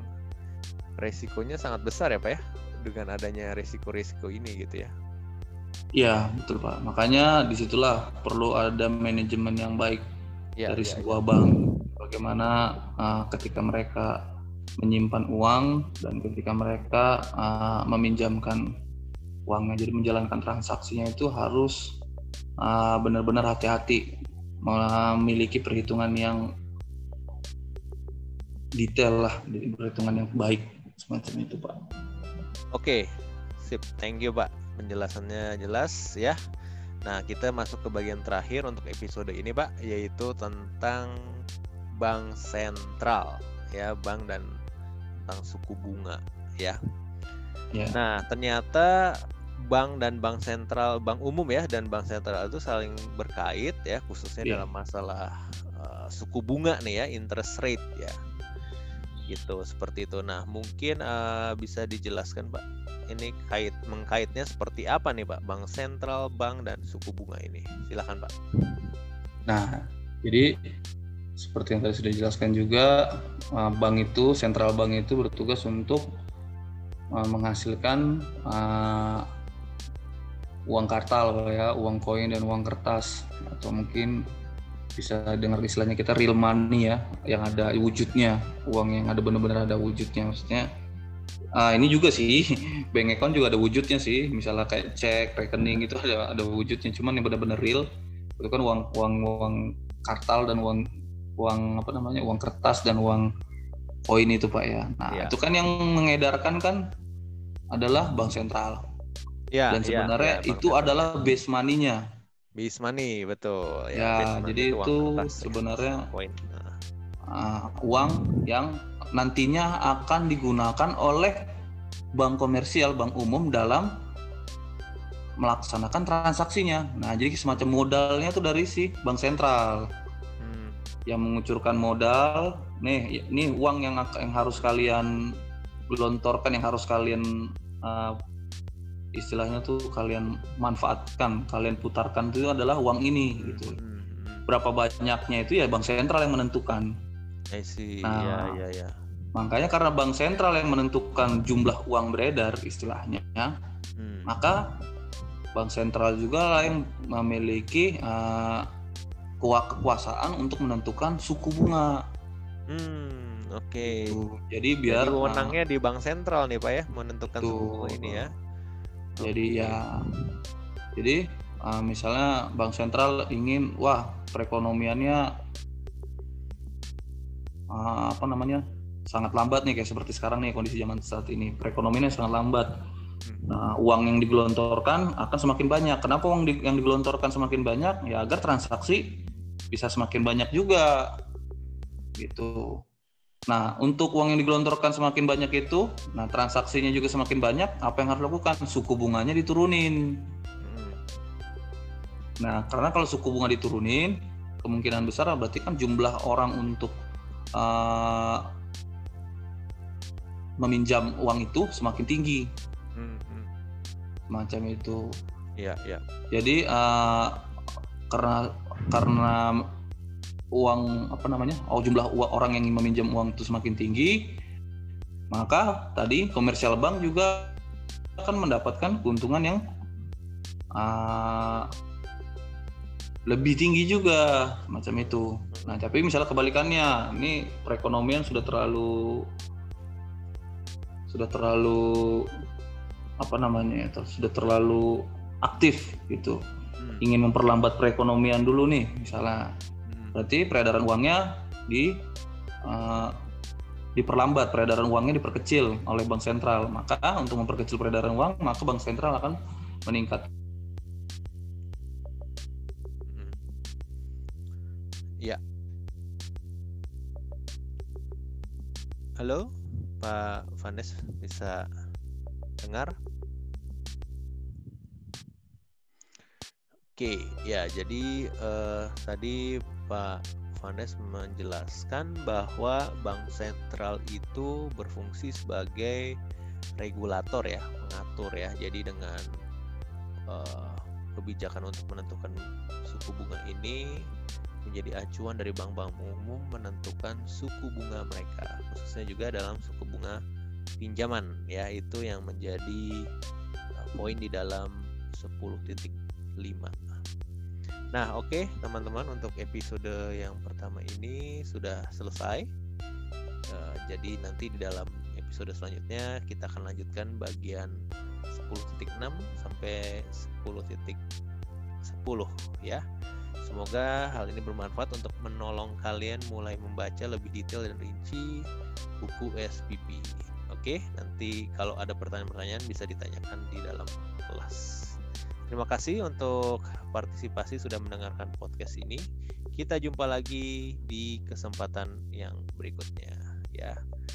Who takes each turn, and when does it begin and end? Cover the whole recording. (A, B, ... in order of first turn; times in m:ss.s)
0:01.0-0:04.9 A
0:06.0-0:10.0 B
0:10.6-0:11.6 A
0:10.7-0:14.1 B
0:14.8-0:18.6 B
0:19.5-0:22.0 B
0:22.6-0:24.0 B
0:24.7-0:26.4 B
0:28.8-0:31.8 B
0:32.7-0:33.0 A
0:33.6-0:36.4 A
0:37.1-0:41.1 A
0:42.0-0:44.5 A
0:45.2-0:46.8 A
0:48.0-0:49.1 A
0:49.7-0:58.2 A
0:59.3-1:08.3 A
1:09.5-1:10.5 B
1:11.4-1:13.0 B
1:13.6-1:16.0 B
1:17.2-1:19.3 B
1:20.7-1:24.2 B
1:25.0-1:30.7 B
1:27.5-1:27.7 A
1:31.6-1:37.8 B
1:38.4-1:40.8 B
1:41.4-1:43.3 B
1:44.1-1:46.8 B
1:45.1-1:45.4 A
1:47.7-1:48.8 B
1:49.5-1:51.2 A
1:49.7-1:52.0 B
1:52.6-1:56.8 A
1:54.0-1:56.1 B
1:57.3-2:01.4 B
2:02.2-2:03.9 B
2:05.4-2:09.9 B
2:10.4-2:10.8 A
2:11.1-2:15.1 B
2:15.9-2:17.3 B
2:17.8-2:18.2 B
2:19.2-2:23.8 B
2:23.4-2:24.5 A
2:24.5-2:26.9 B
2:27.5-2:28.9 A
2:28.1-2:28.6 B
2:29.4-2:33.5 B
2:34.0-2:34.3 A
2:34.3-2:34.7 B
2:35.6-2:38.7 B
2:39.4-2:42.0 B
2:42.7-2:44.2 A
2:43.9-2:45.6 B
2:44.9-2:48.3 A
2:47.4-2:48.3 B
2:49.2-2:49.8 A
2:49.2-2:49.8 B
2:51.0-2:55.2 B
2:57.7-3:02.7 B
3:03.2-3:03.6 A
3:03.5-3:09.2 B
3:09.7-3:11.1 B
3:11.7-3:11.9 A
3:12.2-3:12.8 B
3:13.5-3:20.0 B
3:20.6-3:21.0 A
3:22.4-3:26.9 B
3:27.6-3:28.4 B
3:30.6-3:32.5 B
3:33.0-3:33.5 A
3:34.3-3:35.0 B
3:35.6-3:36.0 A
3:36.3-3:37.4 B
3:38.1-3:39.6 B
3:40.6-3:44.4 B
3:45.3-3:47.5 B
3:48.2-3:49.6 B
3:50.8-3:51.7 B
3:53.3-3:59.2 B
4:01.1-4:02.3 B
4:03.2-4:04.9 B
4:05.4-4:06.4 B
4:07.0-4:09.5 B
4:09.9-4:10.2 A
4:10.1-4:11.9 B
4:12.7-4:13.1 B
4:14.0-4:20.3 B
4:23.1-4:23.4 A
4:29.2-4:29.5 A
4:30.0-4:31.6 A
4:32.6-4:32.9 A
4:37.0-4:46.0 A
4:46.8-4:49.2 A
4:50.3-4:52.3 A
4:52.9-4:53.8 A
4:54.7-5:00.2 A
5:00.8-5:02.9 A
5:03.8-5:06.8 A
5:07.9-5:12.5 A
5:13.5-5:17.7 A
5:18.3-5:21.0 A
5:21.8-5:22.8 A
5:23.4-5:28.3 A
5:29.0-5:34.9 A
5:35.5-5:39.0 A
5:39.6-5:43.8 A